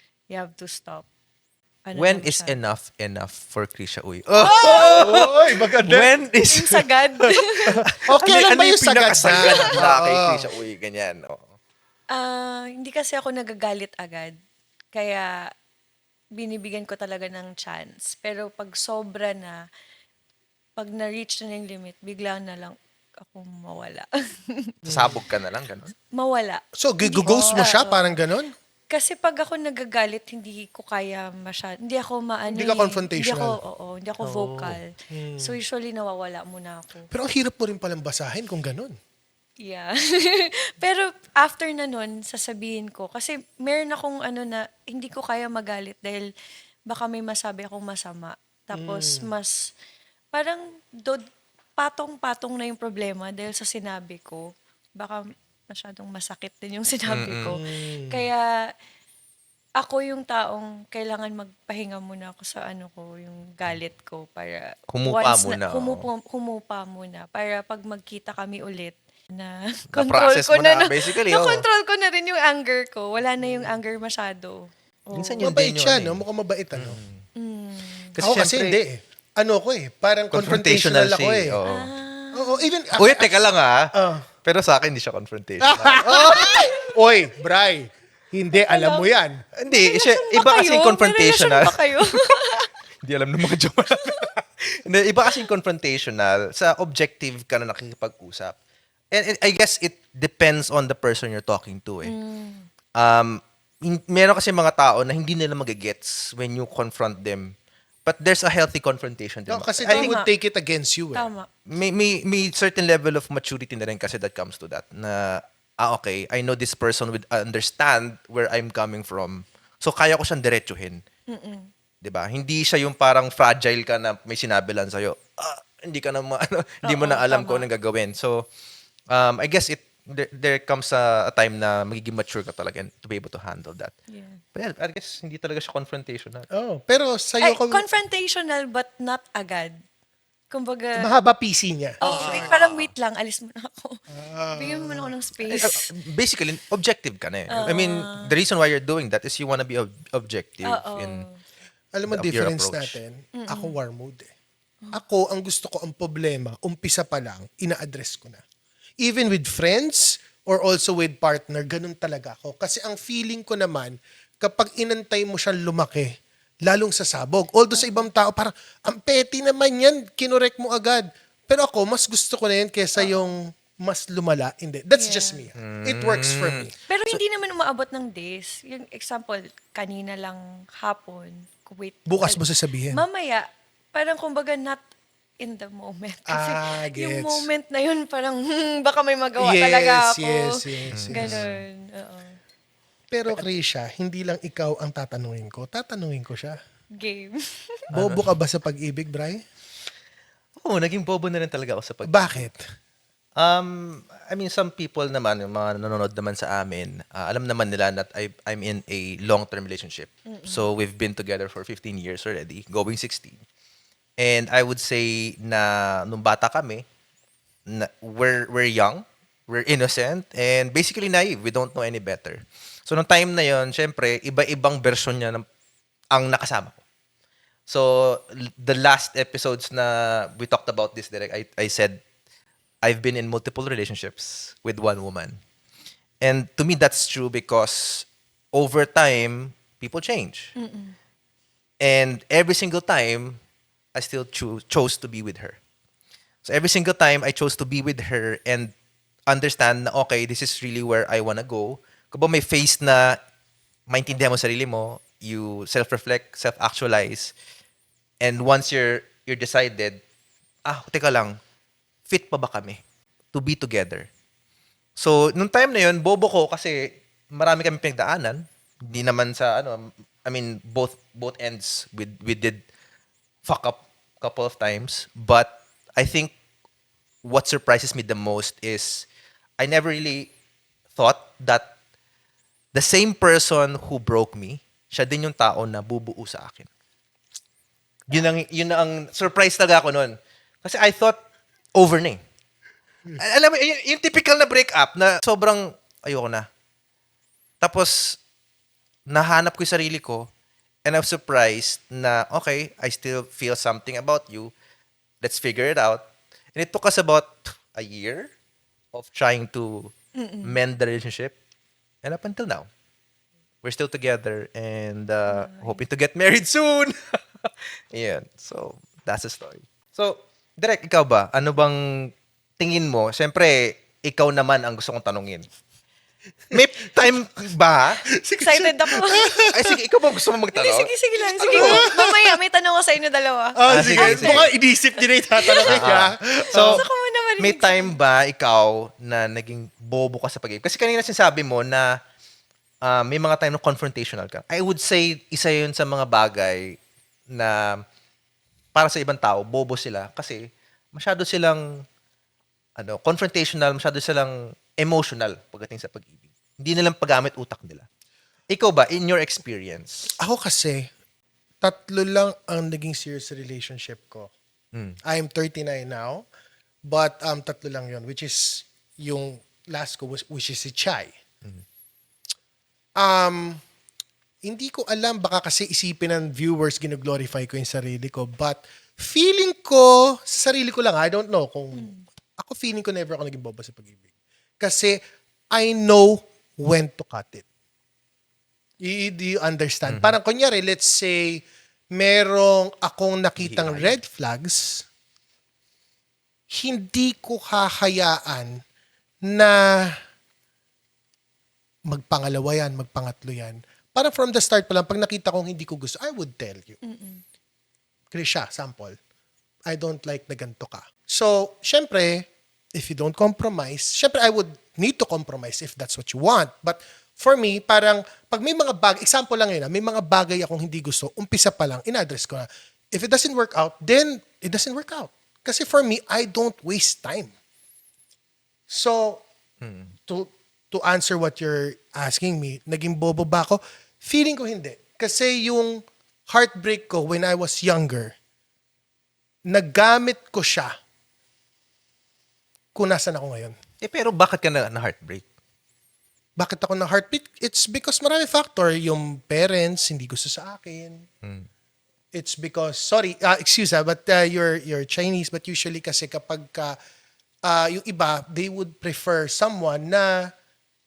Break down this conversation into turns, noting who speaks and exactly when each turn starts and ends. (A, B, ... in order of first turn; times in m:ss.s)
0:00.3-0:01.0 A
0:01.8-0:02.6 A
0:02.0-0:06.9 B
0:04.3-0:05.2 A
0:04.5-0:06.1 C
0:06.5-0:08.6 A
0:07.7-0:10.5 C
0:07.8-0:11.5 B
0:09.2-0:09.6 A
0:12.1-0:14.3 A
0:14.9-0:15.3 A
0:16.4-0:19.6 A
0:20.8-0:25.1 A
0:24.9-0:25.1 C
0:24.9-0:25.9 B
0:26.1-0:28.2 A
0:26.8-0:28.5 C
0:28.9-0:34.8 A
0:32.5-0:33.6 C
0:34.2-0:34.8 B
0:35.1-0:35.6 C
0:35.4-0:37.1 A
0:37.1-0:38.9 C
0:39.6-0:46.3 A
0:46.9-0:49.5 A
0:48.7-0:49.3 C
0:50.3-0:51.2 A
0:51.8-0:58.5 A
0:57.1-0:57.6 B
0:57.6-0:58.2 C
0:59.8-1:15.5 A
1:04.9-1:06.0 B
1:09.9-1:11.6 B
1:15.1-1:16.2 B
1:15.4-1:17.0 C
1:16.7-1:17.2 B
1:17.4-1:18.1 A
1:18.1-1:18.8 B
1:18.2-1:21.6 C
1:20.3-1:21.9 B
1:21.7-1:22.7 A
1:22.3-1:23.4 C
1:23.0-1:23.9 B
1:23.9-1:24.2 C
1:24.4-1:26.7 B
1:25.6-1:29.4 C
1:26.1-1:26.8 A
1:28.6-1:29.1 A
1:29.6-1:32.5 B
1:29.7-1:32.7 A
1:33.0-1:38.6 B
1:39.1-1:42.1 B
1:42.0-1:42.7 A
1:43.0-1:47.5 B
1:48.0-1:50.1 B
1:49.5-1:51.3 C
1:49.9-1:50.3 A
1:51.1-1:51.5 A
1:51.7-2:01.0 B
2:01.3-2:01.7 A
2:02.0-2:08.5 B
2:06.8-2:07.7 A
2:09.1-2:13.9 B
2:14.1-2:14.4 A
2:14.5-2:16.4 B
2:16.5-2:17.8 C
2:17.4-2:19.8 A
2:20.5-2:21.0 A
2:21.0-2:22.5 C
2:22.0-2:22.9 B
2:22.0-2:24.0 A
2:24.1-2:25.1 C
2:24.5-2:25.8 A
2:25.4-2:31.2 B
2:27.6-2:28.3 A
2:30.7-2:31.3 A
2:31.9-2:34.3 C
2:32.1-2:33.0 B
2:33.4-2:33.8 A
2:34.9-2:38.4 C
2:39.0-2:46.1 C
2:46.6-2:56.7 C
2:47.7-2:48.0 A
2:53.0-2:53.4 A
2:54.9-2:55.4 A
2:55.6-2:57.2 B
2:56.9-3:04.8 A
3:02.1-3:03.0 C
3:05.4-3:10.5 A
3:06.3-3:07.5 C
3:09.4-3:11.4 C
3:10.9-3:11.6 B
3:11.1-3:12.4 A
3:13.1-3:16.6 C
3:17.0-3:17.8 A
3:17.9-3:18.4 B
3:17.9-3:19.4 C
3:20.6-3:22.5 B
3:22.0-3:22.6 C
3:23.4-3:33.4 B
3:30.3-3:30.6 A
3:34.2-3:36.8 B
3:37.7-3:45.4 B
3:46.1-3:46.8 B
3:47.7-3:52.0 B
3:52.8-3:55.4 B
3:56.2-4:00.5 B
4:00.6-4:01.0 A
4:01.8-4:03.4 B
4:04.0-4:05.6 B
4:06.4-4:08.7 B
4:09.3-4:13.2 B
4:13.9-4:17.3 B
4:18.2-4:20.0 B
4:20.7-4:21.4 B
4:22.1-4:22.8 B
4:23.3-4:24.1 B
4:25.0-4:32.6 B
4:33.4-4:36.3 B
4:37.2-4:39.0 B
4:39.6-4:40.3 B
4:40.9-4:41.7 B
4:42.7-4:46.7 B
4:48.1-4:51.2 B
4:51.7-4:52.2 B
4:53.2-4:56.4 B
4:57.6-4:58.2 B
4:59.1-5:00.3 B
5:00.8-5:04.5 B
5:05.2-5:08.3 B
5:08.9-5:11.3 B
5:10.2-5:10.6 A
5:12.0-5:12.7 B
5:13.6-5:25.4 B
5:15.3-5:15.8 A
5:26.5-5:28.0 B
5:26.5-5:27.1 C
5:28.2-5:29.8 C
5:28.4-5:29.3 A
5:29.5-5:30.9 B
5:30.5-5:35.9 A
5:31.4-5:32.4 C
5:31.4-5:31.9 B
5:33.6-5:36.8 C
5:33.7-5:34.5 B
5:35.6-5:36.8 B
5:36.5-5:38.0 A
5:37.4-5:41.9 B
5:42.8-5:46.8 B
5:47.3-5:47.7 B
5:48.7-5:50.4 B
5:50.9-5:51.6 B
5:52.8-5:57.8 B
5:58.5-6:00.1 B
6:00.2-6:00.9 C
6:01.6-6:04.3 C
6:05.0-6:06.2 C
6:06.9-6:11.1 C
6:13.0-6:13.6 C
6:14.4-6:24.0 C
6:21.7-6:22.0 A
6:24.6-6:25.0 C
6:25.5-6:27.4 C
6:28.8-6:31.4 C
6:29.9-6:30.2 B
6:31.9-6:34.8 C
6:33.4-6:34.0 B
6:36.5-6:38.6 C
6:39.3-6:39.9 C
6:41.9-6:46.8 C
6:46.8-6:47.2 A
6:48.1-6:48.9 C
6:49.7-7:07.3 C
7:08.7-7:09.2 C
7:09.6-7:09.9 B
7:10.1-7:18.1 C
7:19.5-7:20.7 C
7:22.7-7:23.5 C
7:23.8-7:25.2 B
7:26.4-7:31.0 C
7:31.2-7:31.5 B
7:32.1-7:36.8 C
7:37.4-7:40.3 C